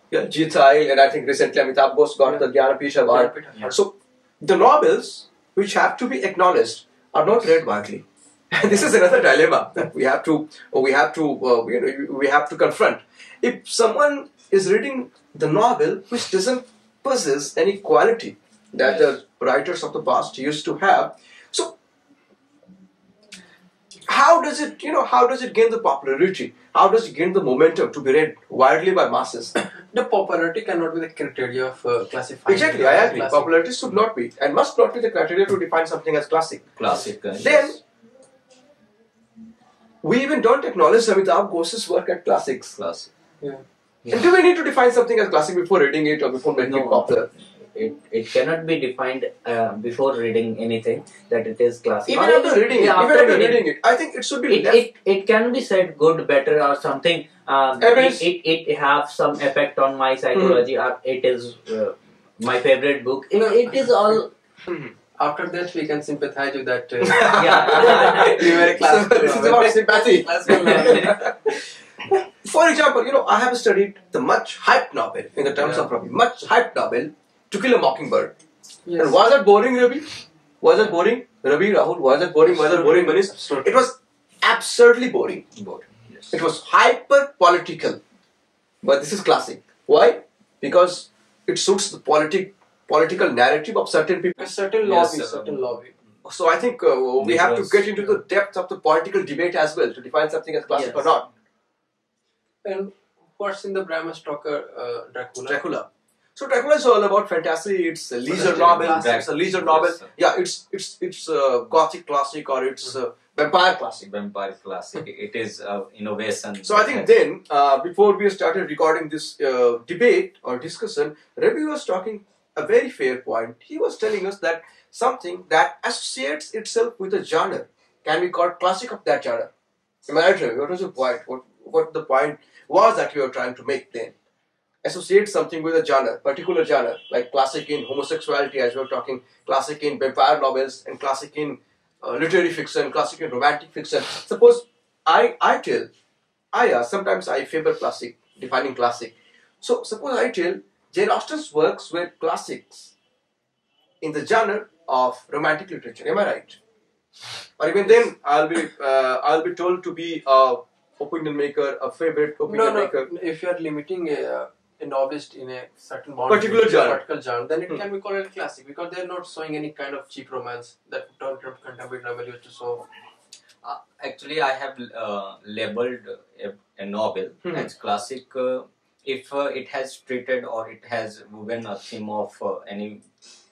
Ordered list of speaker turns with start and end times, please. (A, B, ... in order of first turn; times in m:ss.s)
0:00.1-0:21.8 A
0:02.2-0:03.8 B
0:24.1-0:29.5 A
0:29.6-0:33.6 B
0:32.5-0:36.7 A
0:36.8-0:37.8 C
0:37.4-0:37.8 A
0:40.0-0:42.8 A
0:42.8-0:43.1 C
0:44.0-0:44.3 D
0:44.1-0:47.3 A
0:46.6-0:47.1 D
0:47.7-0:53.7 D
0:52.1-0:54.8 A
0:54.5-1:04.3 D
0:57.8-0:58.3 A
1:00.4-1:00.7 A
1:03.3-1:04.2 B
1:04.7-1:05.0 A
1:05.2-1:11.5 B
1:07.0-1:11.3 A
1:07.3-1:08.6 D
1:12.1-1:18.3 A
1:15.6-1:15.9 B
1:18.9-1:19.2 B
1:19.0-1:25.5 A
1:22.4-1:23.8 B
1:25.6-1:26.4 C
1:26.3-1:28.0 A
1:28.8-1:34.5 A
1:34.4-1:35.9 B
1:34.8-1:35.6 C
1:36.2-1:41.3 A
1:37.2-1:38.2 C
1:40.7-1:41.2 D
1:42.6-1:45.6 B
1:45.5-1:54.1 A
1:48.3-1:50.1 C
1:48.3-1:49.1 B
1:54.0-1:57.2 C
1:56.6-2:09.5 A
2:10.1-2:14.1 A
2:14.8-2:25.9 A
2:26.5-2:32.9 A
2:34.0-2:36.6 A
2:37.6-2:43.1 A
2:42.5-2:52.9 B
2:46.3-2:47.0 A
2:53.6-3:03.0 C